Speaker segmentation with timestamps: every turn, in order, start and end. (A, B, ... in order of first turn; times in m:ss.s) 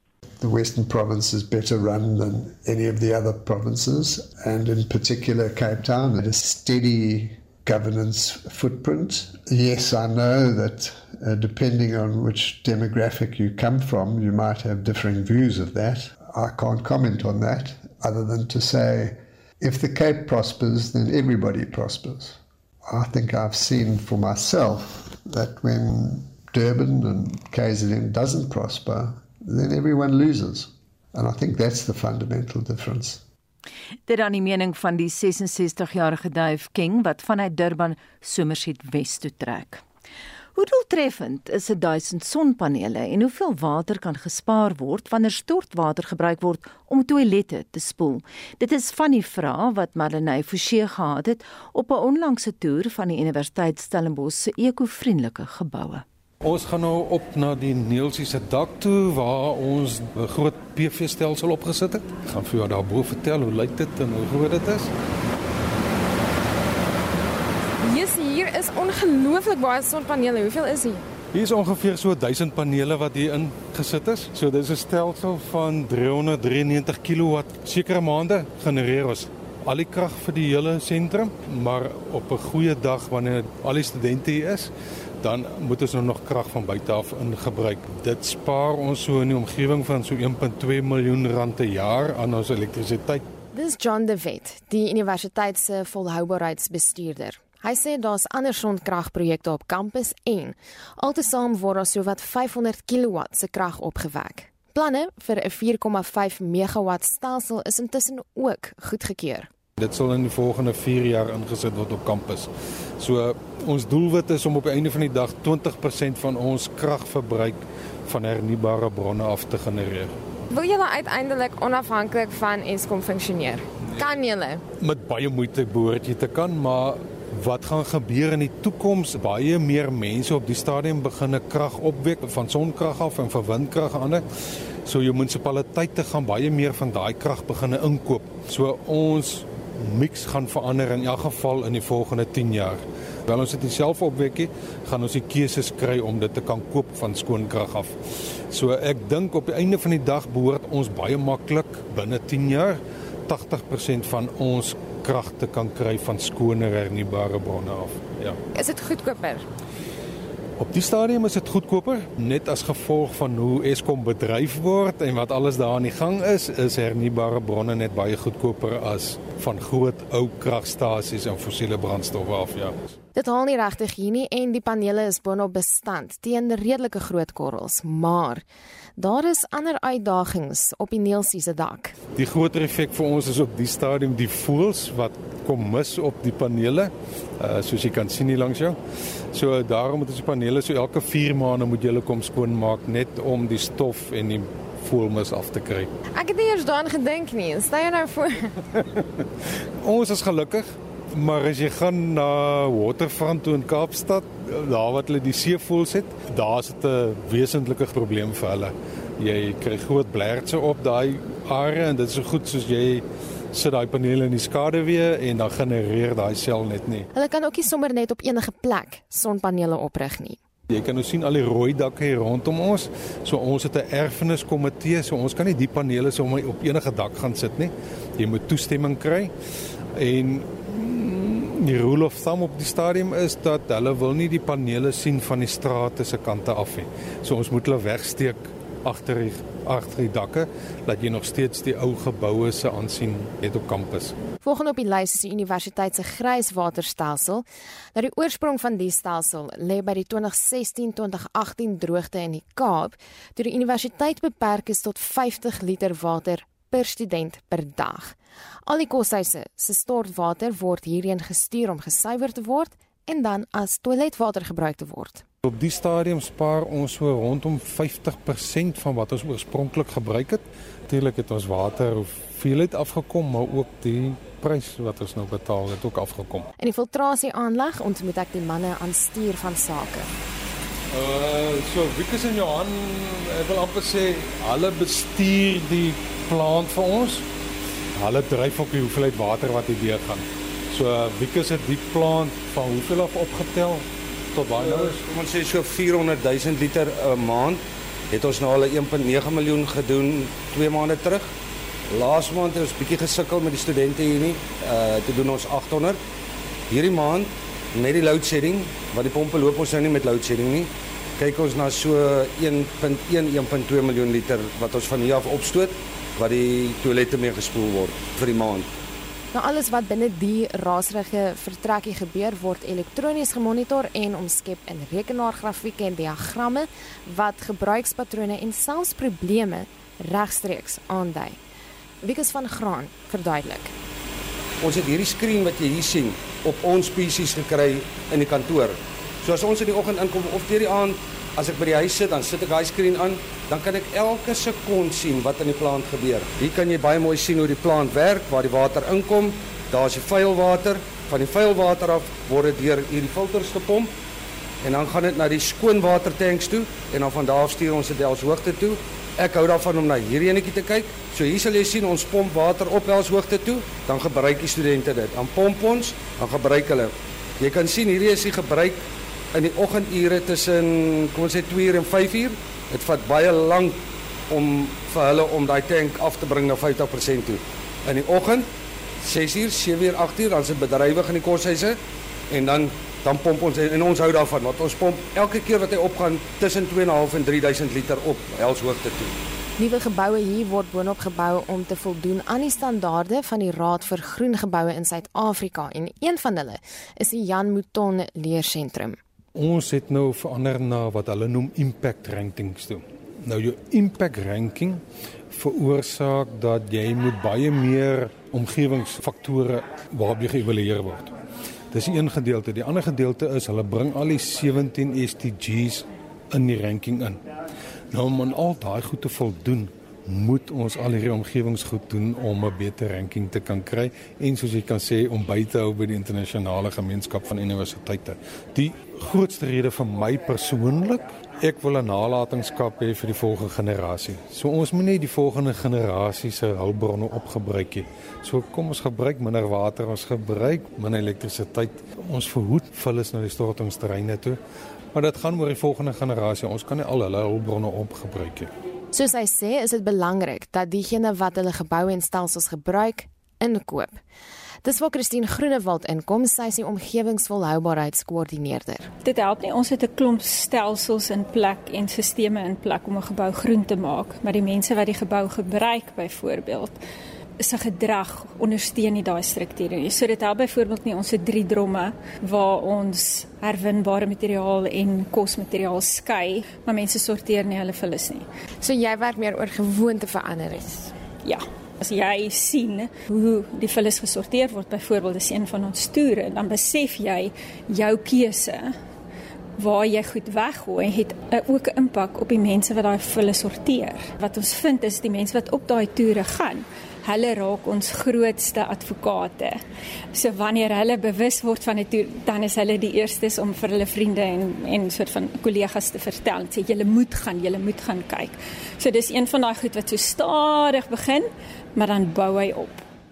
0:00.4-0:33.2 A
0:34.1-0:39.8 B
0:40.6-0:56.0 B
0:56.4-1:04.9 C
1:07.8-1:11.0 D
1:11.3-1:33.2 C
1:33.5-1:49.5 D
1:49.8-2:00.1 C
2:00.5-2:04.6 D
2:04.8-2:14.2 C
2:14.8-2:28.0 C
2:28.5-2:38.4 C
2:38.6-2:39.4 D
2:40.6-2:52.8 C
2:53.2-2:58.4 D
2:59.0-3:02.0 D
3:02.1-3:08.8 C
3:09.3-3:15.9 C
3:16.2-3:18.5 D
3:19.8-3:37.1 C
3:37.1-3:40.4 D
3:40.7-3:49.3 C
3:50.0-4:04.1 C
4:04.4-4:18.2 D
4:18.7-4:25.2 D
4:25.4-4:36.5 C
4:36.6-4:40.1 D
4:40.9-4:47.2 C
4:48.0-4:55.0 C
4:54.6-4:57.6 E
4:58.1-5:01.3 E
5:01.9-5:06.0 E
5:06.7-5:18.7 E
5:19.3-5:31.4 D
5:32.0-5:33.7 D
5:34.6-5:53.9 E
5:54.6-6:08.8 E
6:09.3-6:13.8 E
6:14.3-6:18.5 E
6:19.0-6:21.8 E
6:22.3-6:29.1 E
6:29.6-6:39.0 D
6:39.4-6:51.1 C
6:51.7-6:57.2 C
6:57.9-7:24.4 C
7:24.9-7:28.5 C
7:28.9-7:34.0 D
7:34.6-7:38.9 D
7:39.0-7:46.8 F
7:47.4-7:58.2 F
7:58.6-8:00.9 D
8:01.2-8:08.8 F
8:09.6-8:19.6 F
8:20.1-8:32.8 F